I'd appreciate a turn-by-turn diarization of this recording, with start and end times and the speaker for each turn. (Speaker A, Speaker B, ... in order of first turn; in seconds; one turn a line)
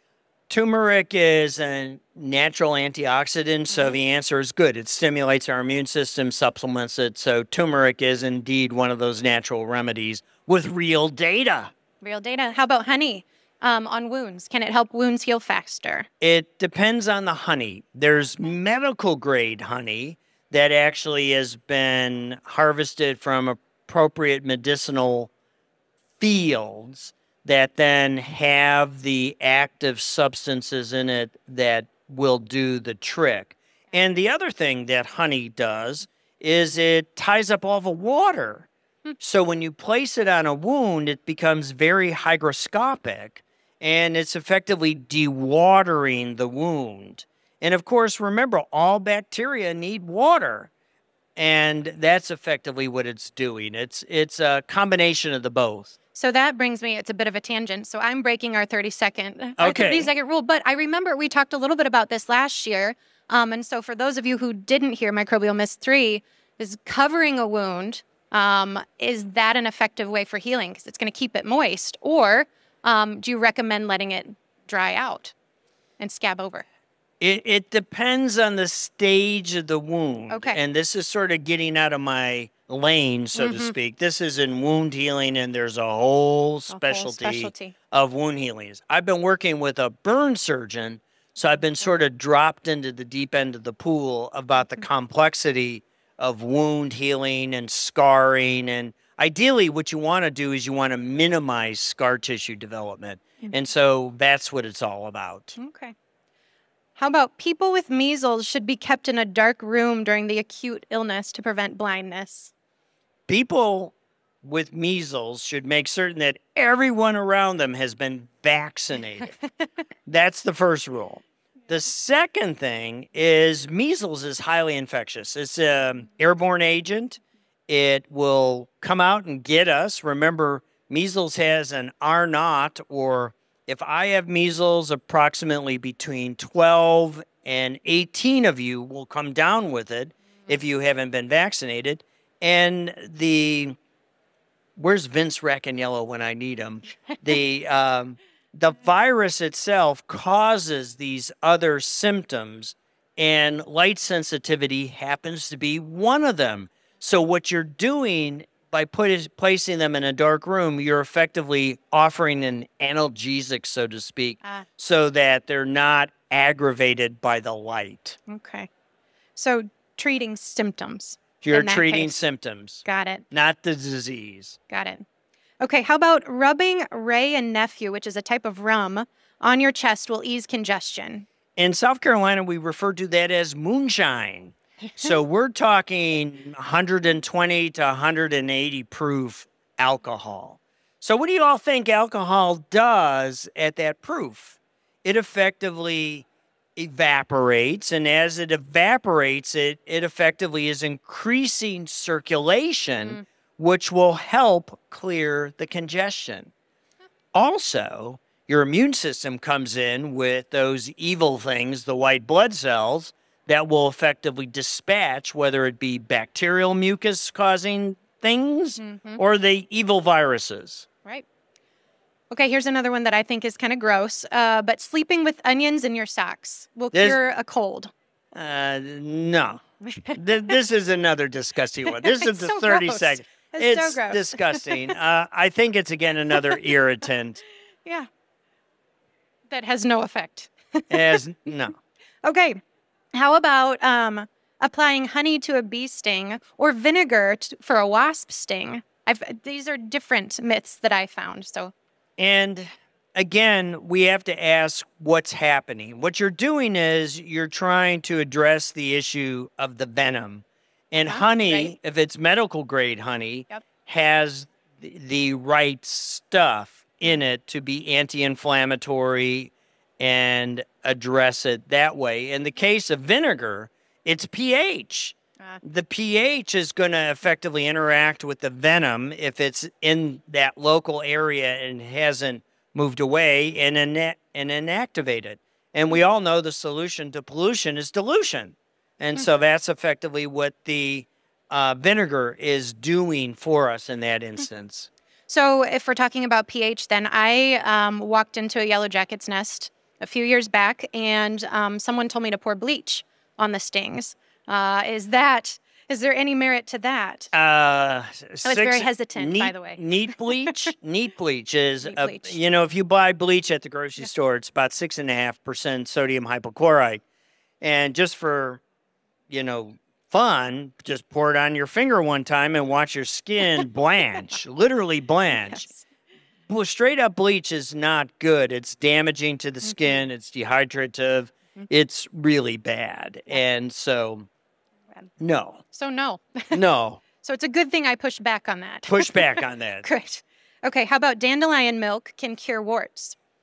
Speaker A: 0.5-11.7
Speaker B: 12.0-16.1
Speaker A: 16.2-25.3
Speaker A: 26.2-38.7
Speaker A: 39.2-50.7
Speaker A: 51.4-56.0
Speaker B: 56.1-75.3
Speaker A: 59.6-60.1
Speaker B: 76.0-76.7
Speaker A: 77.2-105.6
Speaker B: 80.3-80.6
Speaker B: 83.4-83.7
Speaker B: 86.7-87.7
Speaker B: 105.6-106.0
Speaker B: 107.0-112.5
Speaker A: 113.3-119.4
Speaker A: 120.1-143.8
Speaker A: 144.8-168.2
Speaker B: 168.3-168.7
Speaker B: 169.4-172.2
Speaker A: 171.4-174.6
Speaker B: 172.8-173.2
Speaker B: 174.7-175.1
Speaker B: 175.6-181.3
Speaker A: 181.6-206.5
Speaker A: 207.3-220.9
Speaker B: 218.8-219.2
Speaker B: 222.3-227.9
Speaker A: 226.9-227.2
Speaker A: 228.3-237.4
Speaker B: 229.9-230.2
Speaker B: 232.0-234.9
Speaker B: 239.5-241.2
Speaker A: 240.9-241.8
Speaker B: 242.2-242.6
Speaker B: 243.1-251.7
Speaker A: 252.2-294.9
Speaker B: 261.1-261.7
Speaker B: 295.3-307.3
Speaker A: 307.3-317.0
Speaker B: 308.4-309.8
Speaker B: 311.8-312.4
Speaker A: 317.6-318.6
Speaker A: 319.3-325.7
Speaker B: 325.5-325.8
Speaker A: 326.5-334.3
Speaker A: 335.2-335.6
Speaker B: 335.7-336.6
Speaker A: 336.5-337.0
Speaker B: 337.2-339.3
Speaker A: 338.9-339.9
Speaker B: 339.8-343.2